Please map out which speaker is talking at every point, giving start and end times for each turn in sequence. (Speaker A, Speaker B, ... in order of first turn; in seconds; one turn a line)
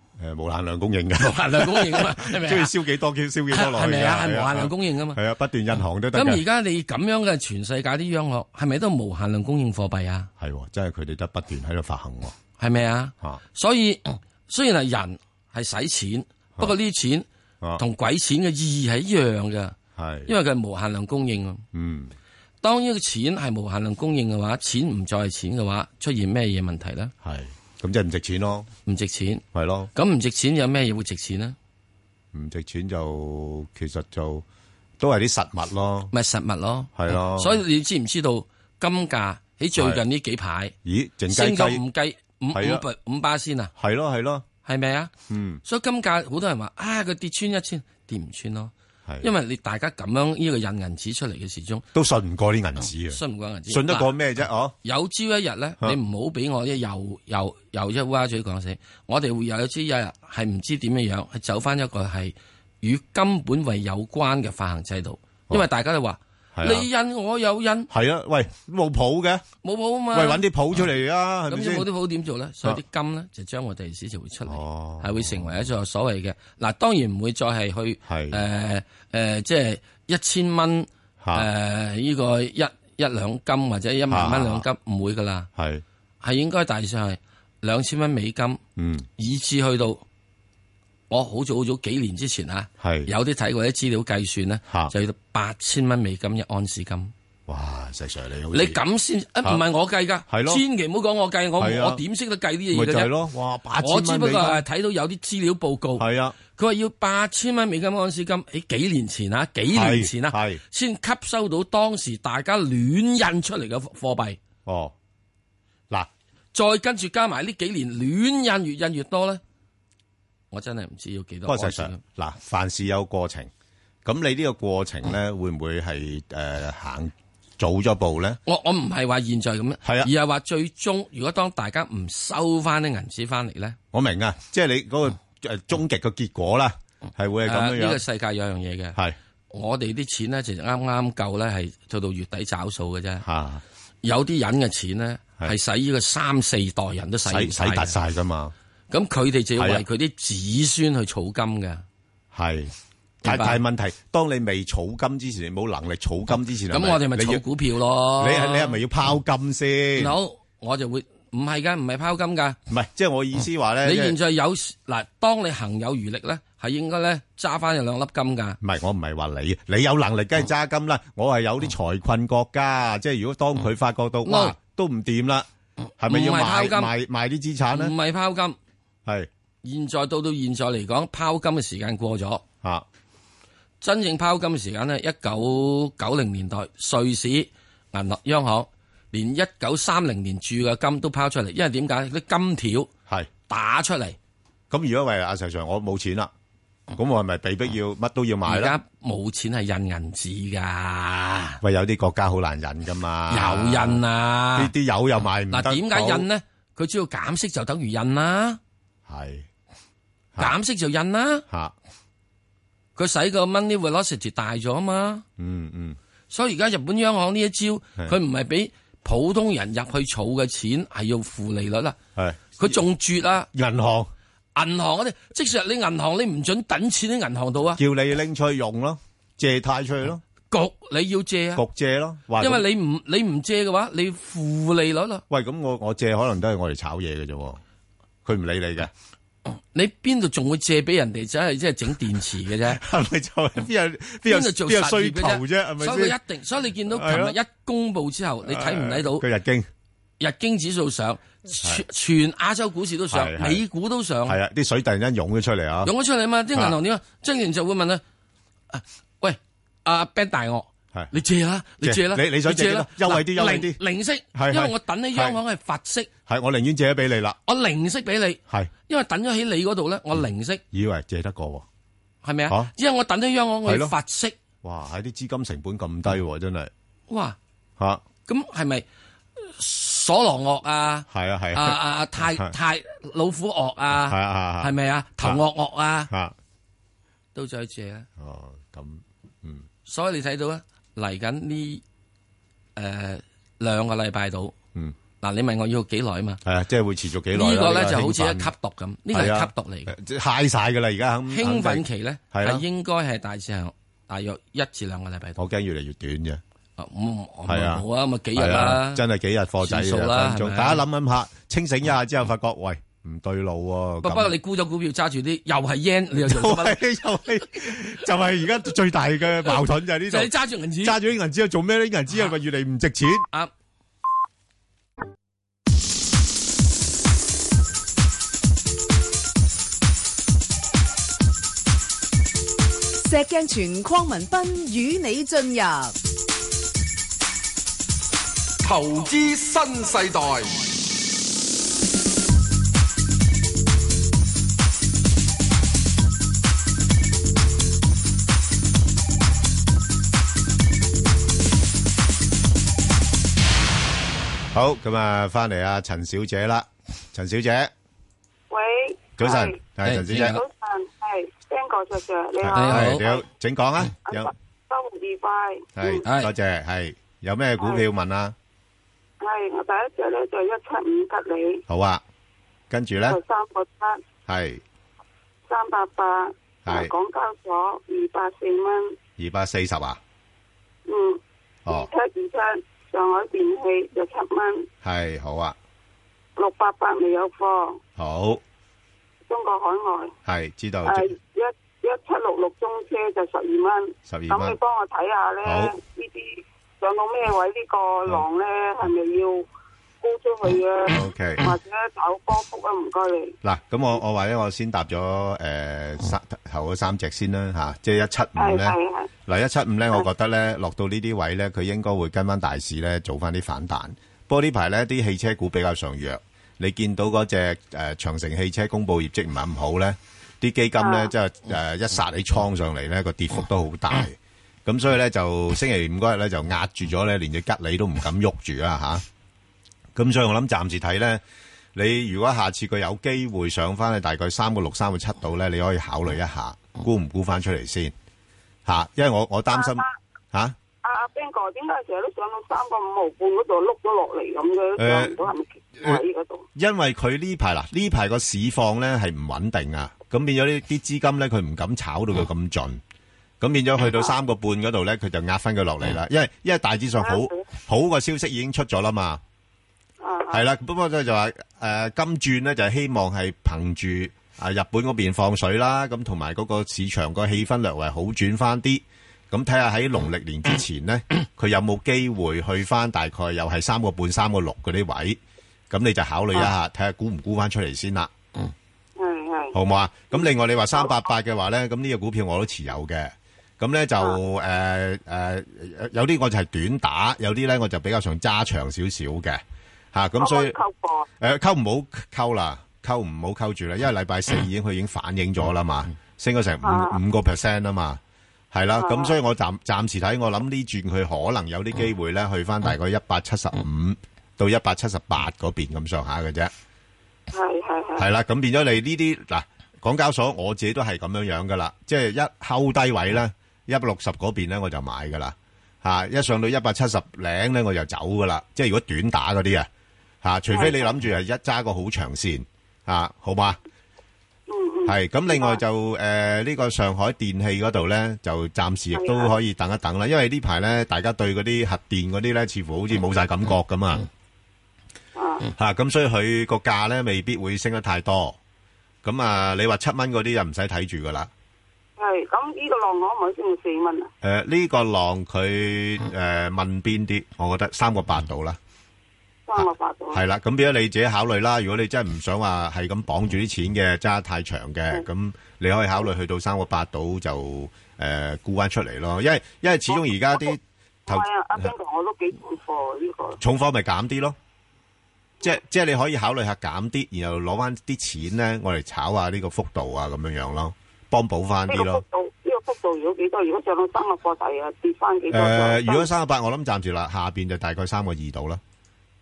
Speaker A: 0.2-6.4
Speaker B: 1.2-2.7
Speaker B: 3.5-5.2
Speaker B: 6.1-10.3
Speaker A: 10.4-12.4
Speaker B: 12.6-17.3
Speaker B: 17.8-21.6
Speaker A: 20.0-20.3
Speaker A: 21.7-22.1
Speaker B: 22.6-27.1
Speaker A: 27.2-28.7
Speaker B: 28.9-29.4
Speaker A: 29.5-29.9
Speaker B: 29.9-31.6
Speaker A: 32.3-34.5
Speaker A: 35.0-36.1
Speaker B: 36.1-40.8
Speaker A: 37.0-37.6
Speaker A: 39.8-40.0
Speaker A: 40.9-41.8
Speaker B: 41.3-43.7
Speaker A: 42.5-42.8
Speaker A: 43.8-44.5
Speaker B: 44.6-45.1
Speaker A: 45.3-45.6
Speaker B: 45.6-51.9
Speaker A: 51.9-54.8
Speaker B: 53.1-54.2
Speaker B: 54.8-67.9
Speaker A: 66.5-66.9
Speaker A: 67.9-69.5
Speaker B: 69.6-70.4
Speaker A: 70.1-71.9
Speaker B: 71.5-85.5
Speaker A: 74.5-75.7
Speaker A: 78.1-78.4
Speaker A: 81.2-81.5
Speaker A: 84.1-84.7
Speaker A: 85.6-85.8
Speaker B: 86.2-88.6
Speaker A: 88.8-89.1
Speaker B: 89.2-90.0
Speaker B: 91.1-97.1
Speaker A: 92.8-93.1
Speaker A: 97.5-98.8
Speaker B: 98.5-103.1
Speaker A: 100.3-100.6
Speaker A: 101.6-102.0
Speaker A: 102.7-104.6
Speaker B: 103.8-114.4
Speaker A: 106.0-106.4
Speaker A: 109.7-110.6
Speaker A: 114.7-115.0
Speaker B: 116.5-119.4
Speaker B: 120.5-122.0
Speaker A: 121.5-123.5
Speaker A: 124.0-128.4
Speaker B: 128.5-133.8
Speaker A: 129.8-130.1
Speaker A: 133.9-138.0
Speaker B: 137.4-139.0
Speaker B: 139.5-143.2
Speaker A: 143.2-143.6
Speaker B: 144.0-147.9
Speaker A: 147.3-148.5
Speaker B: 148.9-151.8
Speaker A: 149.6-149.8
Speaker A: 152.3-157.4
Speaker B: 153.2-153.6
Speaker B: 156.7-158.8
Speaker A: 158.2-160.2
Speaker B: 160.0-162.6
Speaker A: 162.7-164.2
Speaker B: 163.8-168.6
Speaker A: 168.6-175.5
Speaker B: 174.2-174.6
Speaker A: 176.0-177.9
Speaker B: 176.0-176.9
Speaker B: 177.7-178.6
Speaker B: 179.6-182.4
Speaker B: 183.8-192.9
Speaker B: 193.5-194.2
Speaker A: 194.7-196.3
Speaker A: 196.9-198.8
Speaker B: 198.5-201.6
Speaker A: 201.6-204.0
Speaker B: 203.3-204.7
Speaker A: 204.6-206.3
Speaker B: 205.5-208.6
Speaker A: 209.1-209.5
Speaker B: 210.4-211.4
Speaker A: 211.5-211.7
Speaker B: 213.0-215.2
Speaker A: 215.4-216.0
Speaker B: 216.3-222.0
Speaker A: 222.2-222.8
Speaker B: 222.6-223.5
Speaker A: 223.5-224.1
Speaker B: 224.6-227.8
Speaker A: 227.8-230.2
Speaker B: 230.5-231.6
Speaker A: 231.6-232.7
Speaker B: 232.4-235.2
Speaker A: 235.3-237.6
Speaker A: 238.2-238.9
Speaker B: 239.5-242.8
Speaker A: 242.7-246.2
Speaker B: 244.3-249.2
Speaker A: 246.9-247.4
Speaker A: 248.4-249.7
Speaker B: 250.2-254.4
Speaker A: 253.1-253.6
Speaker A: 254.3-255.9
Speaker B: 255.8-258.0
Speaker B: 258.7-266.1
Speaker A: 261.8-263.8
Speaker A: 264.3-265.4
Speaker A: 266.3-267.4
Speaker B: 267.5-270.6
Speaker A: 270.7-271.7
Speaker B: 272.2-274.4
Speaker A: 273.6-273.9
Speaker A: 274.6-276.7
Speaker B: 277.1-277.4
Speaker B: 278.3-278.9
Speaker B: 279.4-286.1
Speaker A: 281.1-282.5
Speaker A: 283.9-285.4
Speaker A: 286.1-286.4
Speaker B: 287.4-288.1
Speaker A: 288.2-289.6
Speaker B: 289.9-291.8
Speaker B: 292.8-294.5
Speaker B: 295.2-296.4
Speaker A: 296.4-298.5
Speaker B: 297.3-299.9
Speaker A: 299.1-302.6
Speaker B: 301.3-305.4
Speaker A: 305.4-306.4
Speaker B: 306.8-309.0
Speaker A: 307.5-314.4
Speaker B: 309.6-310.8
Speaker B: 314.0-316.8
Speaker A: 316.2-323.3
Speaker B: 320.1-321.0
Speaker C: 333.1-335.9
Speaker D: 338.6-340.6
Speaker A: 354.5-357.7
Speaker E: 358.5-359.6
Speaker A: 359.2-360.4
Speaker B: 359.8-360.4
Speaker E: 360.1-363.2
Speaker A: 362.4-364.3
Speaker B: 362.5-363.1
Speaker E: 364.1-366.0
Speaker A: 365.8-368.4
Speaker B: 366.1-366.3
Speaker E: 369.2-371.6
Speaker A: 371.7-372.0
Speaker A: 372.7-373.2
Speaker E: 373.1-374.0
Speaker A: 374.3-374.6
Speaker E: 375.5-379.0
Speaker A: 376.6-376.9
Speaker A: 379.2-380.0
Speaker E: 380.9-384.7
Speaker A: 384.8-385.6
Speaker E: 386.4-387.8
Speaker A: 388.0-388.4
Speaker E: 389.3-390.1
Speaker A: 390.3-391.1
Speaker E: 390.9-399.4
Speaker A: 394.1-394.6
Speaker A: 395.4-395.7
Speaker E: 400.0-403.4
Speaker A: 400.9-401.5
Speaker A: 403.4-408.8
Speaker E: 408.4-409.1
Speaker A: 409.3-429.0
Speaker E: 420.8-421.1
Speaker A: 429.9-431.2
Speaker A: 431.8-437.9
Speaker A: 438.7-440.6
Speaker E: 439.5-439.9
Speaker E: 440.8-446.5
Speaker A: 444.8-445.2
Speaker A: 446.6-452.8
Speaker A: 453.4-459.2
Speaker E: 460.0-460.4
Speaker A: 460.3-475.2
Speaker A: 475.7-478.1
Speaker E: 479.0-479.6
Speaker A: 479.5-489.4
Speaker A: 489.9-490.6
Speaker E: 490.2-491.1
Speaker A: 491.2-498.0
Speaker E: 496.6-497.0
Speaker A: 498.5-506.5
Speaker E: 498.8-499.1
Speaker E: 507.3-508.1
Speaker A: 508.0-519.7
Speaker A: 520.2-523.6
Speaker E: 520.5-520.9
Speaker E: 524.5-525.6
Speaker A: 524.9-534.1
Speaker E: 528.9-529.3
Speaker E: 535.2-535.5
Speaker A: 535.6-538.4
Speaker A: 539.0-541.3
Speaker E: 542.0-544.1
Speaker A: 544.2-548.6
Speaker E: 549.5-550.2
Speaker A: 549.6-561.7
Speaker E: 559.9-560.5
Speaker E: 561.1-563.4
Speaker A: 563.4-564.4
Speaker A: 565.4-572.0
Speaker E: 571.7-576.1
Speaker A: 575.3-578.6